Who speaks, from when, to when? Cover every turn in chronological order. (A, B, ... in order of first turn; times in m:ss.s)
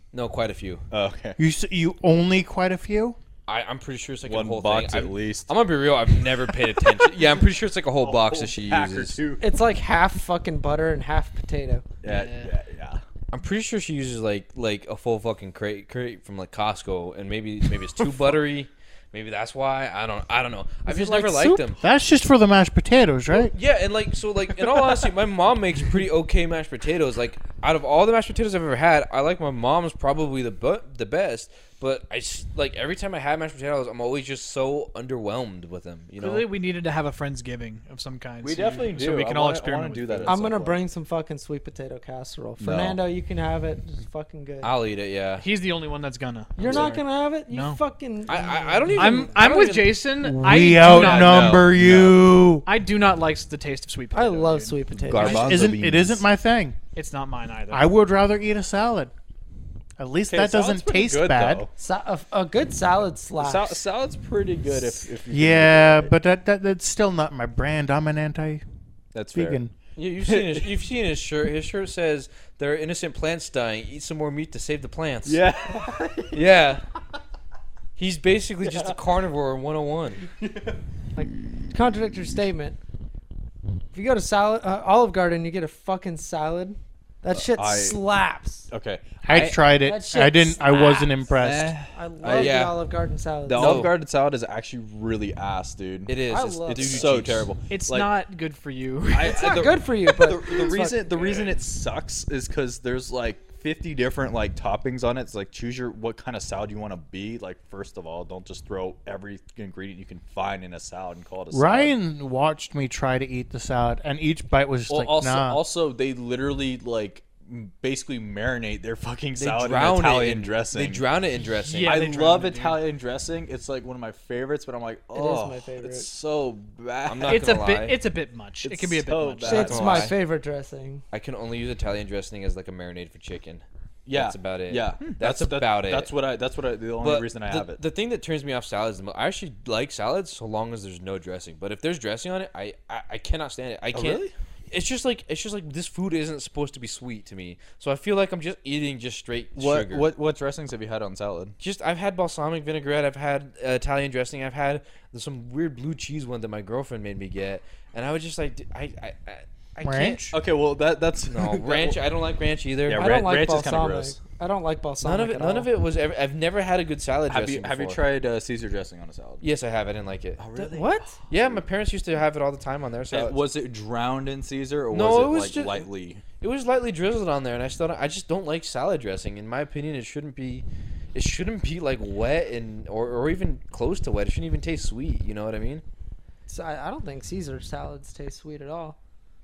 0:00.1-0:00.8 A
0:00.9-0:01.4 B
0:01.4-0:03.2 C
0:03.5-0:09.2 A
0:04.2-0:05.5 B
0:08.0-0:09.5 B
0:09.4-0:11.8 D
0:12.0-0:13.0 B
0:12.0-0:12.5 E
0:13.3-0:21.8 A
0:20.8-0:21.7 D
0:21.8-0:23.5 C
0:23.3-0:36.4 A
0:36.2-0:40.4 E
0:38.4-0:40.8 B
0:40.2-0:44.7 D
0:42.6-0:43.0 B
0:44.6-0:45.4 A
0:45.4-0:47.8 E
0:46.6-0:49.4 D
0:46.6-0:47.0 B
0:48.3-0:50.0 A
0:48.9-0:51.7 E
0:50.2-0:52.6 C
0:50.8-0:52.3 B
0:52.6-0:55.6 E
0:54.1-0:55.5 D
0:54.9-0:56.2 B
0:55.2-0:56.8 C
0:56.9-0:57.9 E
0:57.7-0:59.1 C
1:00.0-1:01.6 C
1:00.3-1:01.7 B
1:01.8-1:03.8 D
1:03.4-1:06.1 B
1:05.3-1:08.6 C
1:09.1-1:09.6 B
1:09.3-1:09.7 C
1:10.0-1:15.4 A
1:10.2-1:10.7 B
1:15.2-1:16.4 B
1:16.3-1:16.8 A
1:18.0-1:20.2 A
1:18.6-1:19.0 B
1:20.4-1:20.8 B
1:21.2-1:22.8 D
1:23.9-1:28.7 D
1:27.5-1:28.0 B
1:28.7-1:29.1 B
1:29.2-1:31.7 C
1:29.3-1:29.6 A
1:29.8-1:31.2 D
1:31.3-1:32.6 B
1:31.9-1:33.8 D
1:32.3-1:32.8 A
1:33.4-1:38.1 B
1:33.5-1:33.9 A
1:36.1-1:37.5 A
1:36.3-1:37.1 D
1:37.7-1:39.7 E
1:39.1-1:51.9 B
1:39.2-1:41.5 D
1:51.5-1:55.6 C
1:54.9-2:01.0 B
1:59.4-2:02.1 A
2:01.4-2:02.8 E
2:01.8-2:07.7 B
2:05.1-2:06.1 D
2:07.0-2:08.0 A
2:07.2-2:10.0 E
2:08.6-2:10.1 B
2:09.4-2:11.0 D
2:09.4-2:10.2 A
2:11.1-2:16.1 A
2:14.0-2:17.8 B
2:17.0-2:30.1 A
2:23.9-2:24.3 B
2:29.6-2:31.6 B
2:31.6-2:40.3 A
2:39.8-2:40.3 C
2:40.3-2:42.0 B
2:41.2-2:43.2 A
2:42.8-2:44.2 B
2:42.9-2:45.7 D
2:45.0-2:48.0 A
2:47.3-2:49.4 B
2:49.4-2:50.4 A
2:50.4-2:51.6 B
2:50.5-2:51.2 D
2:51.3-2:53.4 A
2:53.1-2:56.2 B
2:54.9-2:55.9 A
2:56.4-3:05.8 A
3:06.5-3:09.0 D